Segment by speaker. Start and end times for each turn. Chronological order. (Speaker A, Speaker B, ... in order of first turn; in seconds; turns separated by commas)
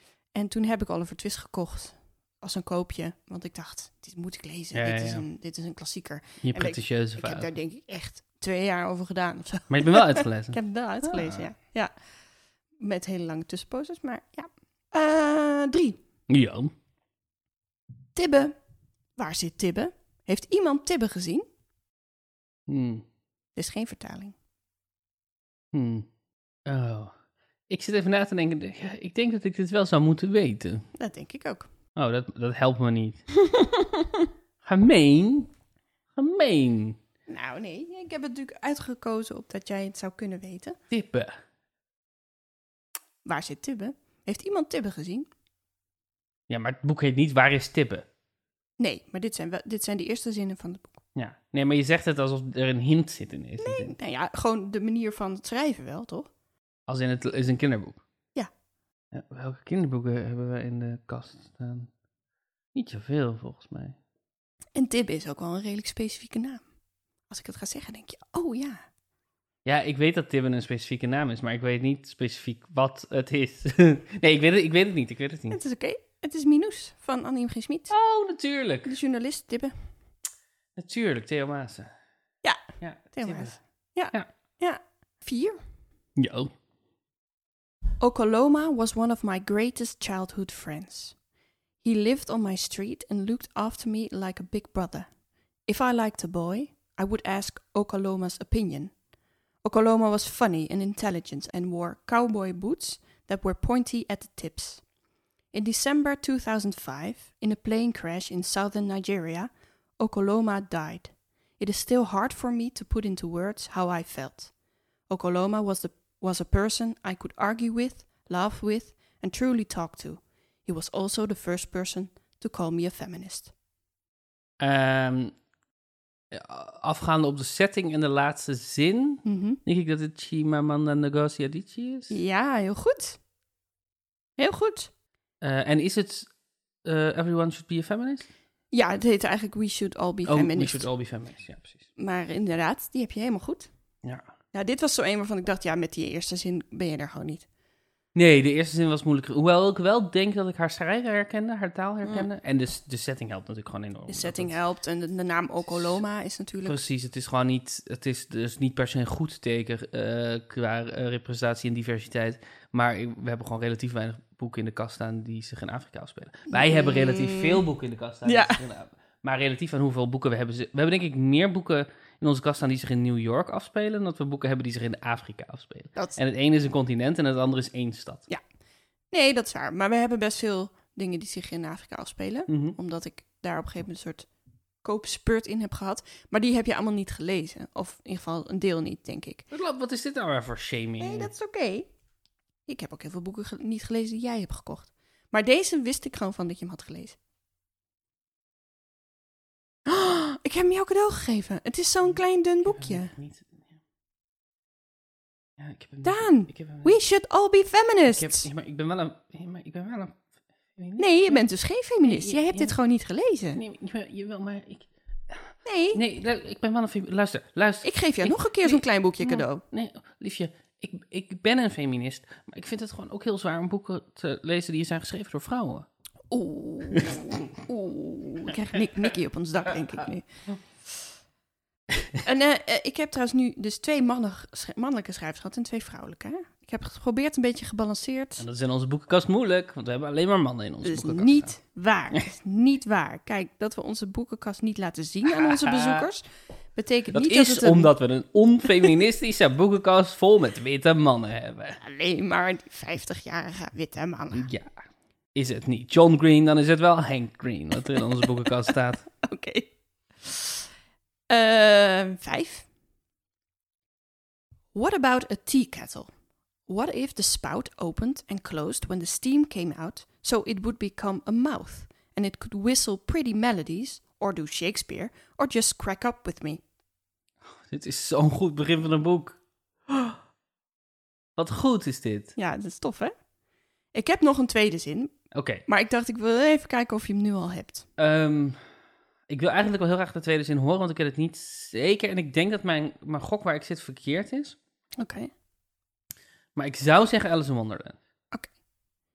Speaker A: 0.3-11.9, Speaker B: 4.7-5.2, Speaker B: 6.4-7.5, Speaker B: 9.7-11.4, Speaker A: 12.8-16.0, Speaker B: 16.3-16.7, Speaker A: 18.1-18.5, Speaker A: 19.1-21.4, Speaker B: 22.7-23.0, Speaker A: 23.6-24.3, Speaker B: 25.7-26.1, Speaker B: 26.6-27.1, Speaker B: 27.7-30.9, Speaker A: 30.9-31.7, Speaker B: 31.9-33.2, Speaker A: 33.5-34.3, Speaker B: 34.6-35.5, Speaker B: 36.1-37.0, Speaker A: 37.3-40.8, Speaker B: 40.9-41.4, Speaker A: 43.2-45.3, Speaker B: 46.5-48.0, Speaker A: 48.8-51.0, Speaker B: 51.1-53.9, Speaker A: 53.6-56.3, Speaker B: 56.9-58.0, Speaker B: 59.1-61.9, Speaker B: 62.7-64.0, Speaker A: 64.8-66.6, Speaker A: 67.3-68.8, Speaker B: 69.6-75.6, Speaker A: 75.5-77.9, Speaker B: 77.9-78.9, Speaker A: 78.8-79.7, Speaker B: 80.8-81.9, Speaker B: 82.8-83.6, Speaker A: 83.1-85.6, Speaker B: 86.2-86.5, Speaker A: 88.0-91.1, Speaker A: 91.8-95.1, Speaker A: 95.7-98.9, Speaker A: 99.6-104.8, Speaker A: 105.5-114.5, Speaker A: 115.1-123.5, Speaker B: 124.6-125.3, Speaker B: 126.3-132.2, Speaker A: 129.2-129.6, Speaker A: 132.1-133.2, Speaker A: 134.4-134.9, Speaker B: 135.4-136.3, Speaker B: 136.8-138.3, Speaker A: 138.7-140.9, Speaker B: 140.2-141.8, Speaker A: 142.0-143.7, Speaker A: 144.5-147.4, Speaker B: 148.1-154.5, Speaker A: 154.1-156.8, Speaker B: 156.6-178.3, Speaker A: 166.5-167.6, Speaker A: 168.2-168.6, Speaker A: 179.1-184.3, Speaker B: 182.5-182.8, Speaker A: 184.8-189.4, Speaker B: 189.5-191.3, Speaker A: 191.0-191.9, Speaker A: 192.7-197.2, Speaker A: 199.8-203.1, Speaker B: 202.6-203.7, Speaker B: 205.6-206.9, Speaker A: 206.0-208.5, Speaker B: 208.1-210.2, Speaker B: 210.7-211.4, Speaker A: 211.0-213.6, Speaker B: 212.0-212.7, Speaker B: 213.5-225.9, Speaker A: 215.6-216.0, Speaker A: 217.8-219.6, Speaker A: 226.3-230.3, Speaker B: 226.9-227.2, Speaker A: 232.2-238.4, Speaker B: 238.4-241.5, Speaker A: 240.8-247.9, Speaker B: 245.3-246.1, Speaker B: 247.1-251.8, Speaker A: 251.8-254.5, Speaker B: 254.3-254.7, Speaker B: 255.3-259.1, Speaker A: 259.2-260.6, Speaker A: 261.3-262.7, Speaker A: 264.7-266.1, Speaker A: 266.7-276.6, Speaker B: 277.6-280.2, Speaker B: 281.4-282.3, Speaker A: 282.4-283.1, Speaker A: 283.9-285.1, Speaker B: 285.3-285.6, Speaker A: 285.7-287.8, Speaker B: 288.0-288.6, Speaker B: 289.3-294.6, Speaker A: 295.0-295.3, Speaker B: 296.6-298.0